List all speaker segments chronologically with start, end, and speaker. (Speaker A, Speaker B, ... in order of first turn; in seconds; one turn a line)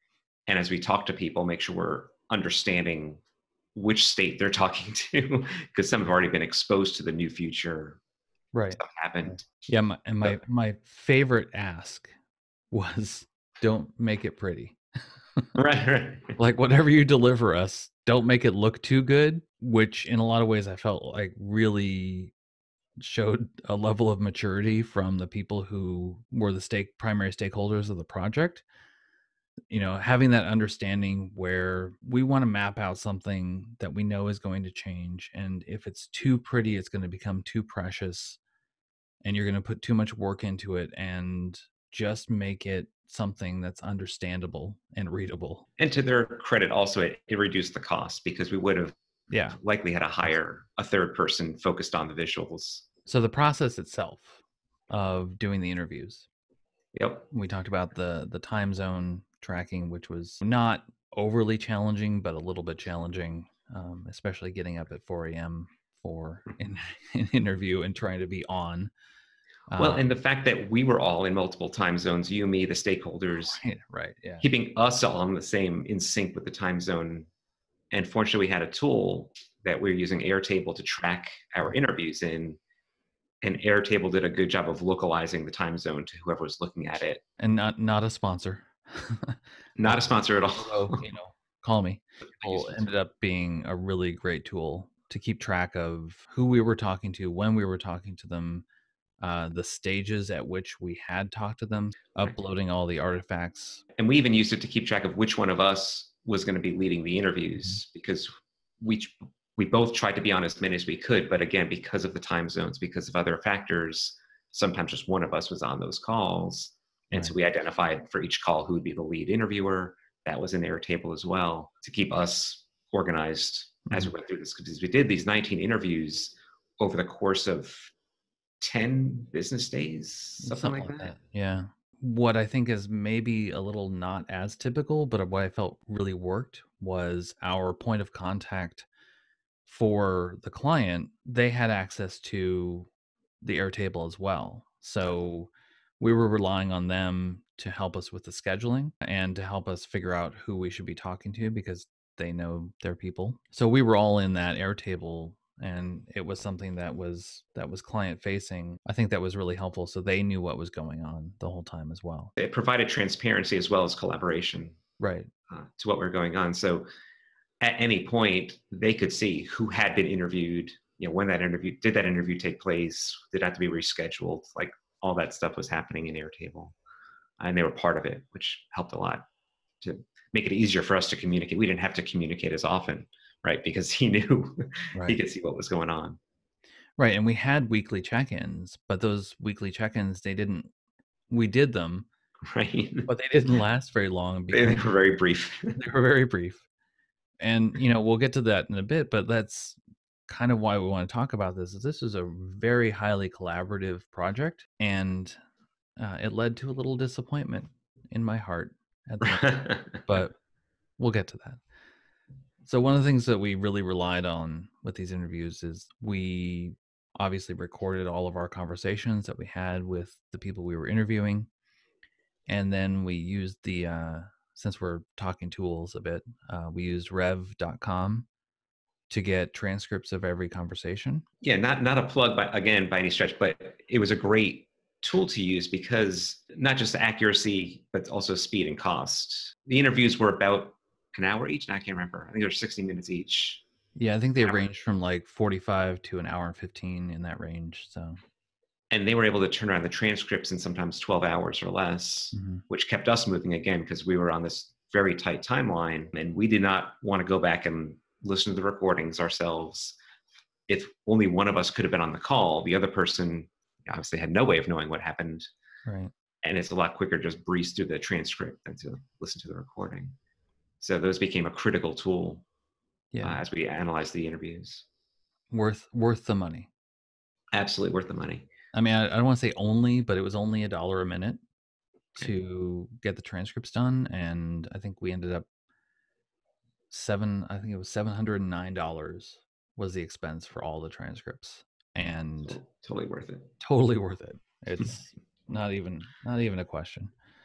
Speaker A: 0.5-3.2
Speaker A: 3.7-8.0
Speaker B: 8.5-12.1
Speaker A: 8.8-9.4
Speaker B: 12.7-14.8
Speaker A: 15.5-16.4
Speaker B: 16.4-22.3
Speaker B: 23.0-28.6
Speaker B: 29.7-38.4
Speaker B: 39.2-45.6
Speaker A: 45.8-48.9
Speaker B: 49.3-49.6
Speaker A: 49.5-52.9
Speaker B: 53.0-56.3
Speaker A: 56.9-57.3
Speaker B: 57.3-68.9
Speaker B: 69.7-70.0
Speaker A: 69.8-73.6
Speaker B: 73.5-74.5
Speaker A: 74.4-77.3
Speaker A: 77.9-82.6
Speaker A: 83.4-87.2
Speaker B: 87.4-98.6
Speaker A: 89.8-91.0
Speaker A: 92.4-92.9
Speaker B: 99.2-103.8
Speaker A: 104.0-108.3
Speaker A: 108.8-127.9
Speaker B: 123.9-124.1
Speaker A: 128.6-131.1
Speaker B: 130.4-138.8
Speaker B: 139.7-142.9
Speaker B: 143.4-162.3
Speaker A: 162.4-164.8
Speaker B: 165.0-165.3
Speaker A: 165.5-166.8
Speaker A: 167.6-176.7
Speaker A: 177.4-179.2
Speaker A: 179.8-186.2
Speaker B: 187.0-190.7
Speaker B: 191.3-192.1
Speaker A: 192.5-193.1
Speaker B: 193.1-194.9
Speaker A: 194.5-195.8
Speaker B: 195.8-196.6
Speaker B: 197.4-205.4
Speaker B: 206.0-210.4
Speaker A: 209.2-210.0
Speaker B: 211.0-211.6
Speaker B: 212.6-221.5
Speaker B: 222.5-228.3
Speaker B: 229.1-231.2
Speaker A: 231.4-243.6
Speaker B: 243.9-248.2
Speaker A: 248.9-260.0
Speaker B: 252.3-252.6
Speaker A: 260.7-265.4
Speaker B: 265.9-266.1
Speaker A: 266.4-270.1
Speaker A: 270.8-272.4
Speaker B: 273.1-273.4
Speaker A: 273.2-274.8
Speaker B: 275.5-276.7
Speaker A: 277.5-278.5
Speaker B: 278.7-281.4
Speaker B: 282.1-285.4
Speaker B: 286.9-292.6
Speaker A: 292.5-293.5
Speaker B: 293.6-297.1